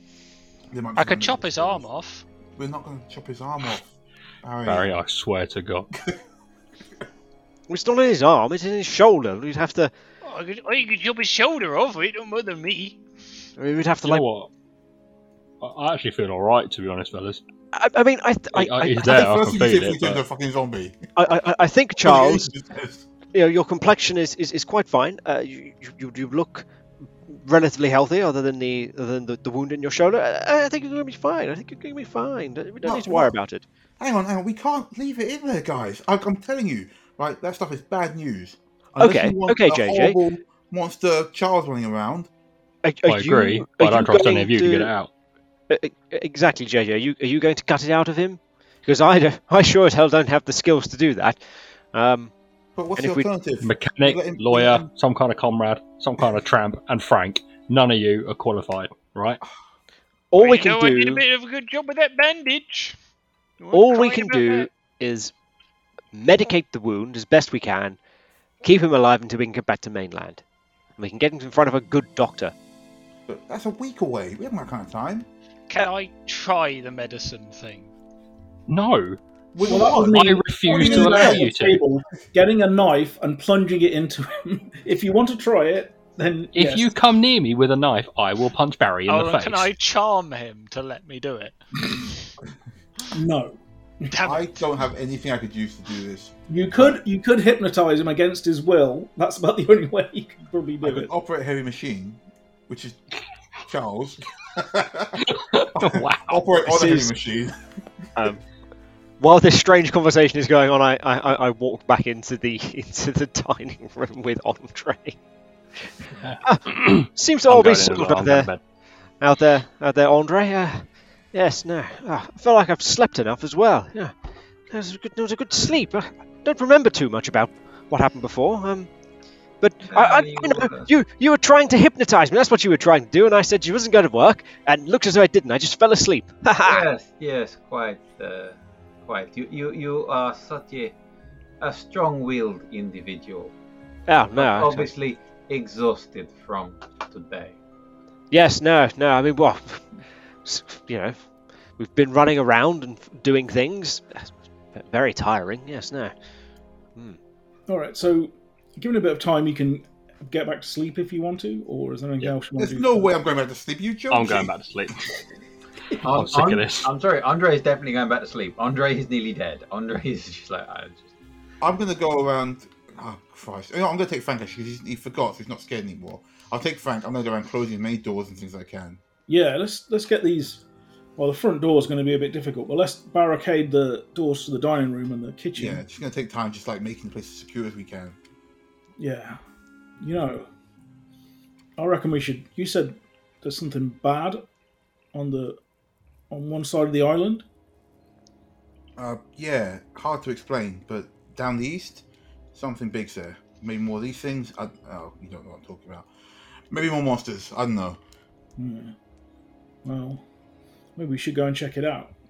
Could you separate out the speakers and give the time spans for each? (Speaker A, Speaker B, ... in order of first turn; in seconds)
Speaker A: 0.7-1.9, 2.5-3.9, 4.4-4.9, 19.0-21.1, 22.0-23.1, 32.8-33.3, 34.0-42.3, 52.8-54.9, 73.3-75.3, 79.5-81.5, 94.2-97.0, 100.8-103.0, 103.6-107.5, 162.6-164.5, 171.6-179.0, 185.5-188.2, 199.0-206.1, 206.7-208.0
Speaker B: 0.9-2.2, 10.2-13.0, 60.4-63.0, 63.6-64.7, 75.7-77.9, 89.1-92.2, 94.1-94.6
Speaker C: 4.7-5.9, 14.0-14.5, 15.6-17.4, 18.5-20.2, 43.0-45.1, 53.6-59.4, 78.7-79.2, 79.8-81.8, 86.5-89.7, 105.2-107.1, 116.2-118.6, 164.1-165.1, 166.0-166.9
Speaker D: 7.7-9.9, 13.6-14.2, 17.7-19.3, 21.1-22.5, 23.3-26.6, 27.3-33.6, 39.0-40.2, 42.8-44.9, 45.7-52.3, 53.0-53.3, 60.3-61.2, 63.7-65.3, 66.1-68.0, 68.6-70.4, 71.0-72.5, 108.2-108.4, 109.2-115.2, 116.4-118.5, 119.2-124.1, 124.7-128.9, 129.6-136.9, 144.1-144.9, 148.3-149.9, 150.4-151.2, 151.8-156.1
Speaker E: 79.6-86.9, 93.1-94.0, 96.5-101.1, 157.7-163.1, 179.3-180.6, 181.2-185.8, 189.0-189.4, 190.0-190.5, 191.8-194.4, 195.1-195.6, 196.3-197.4, 208.6-208.9, 209.8-210.2, 211.0-212.1
Speaker F: 129.9-130.9, 136.6-140.9, 141.6-143.5, 144.3-147.6, 166.0-171.1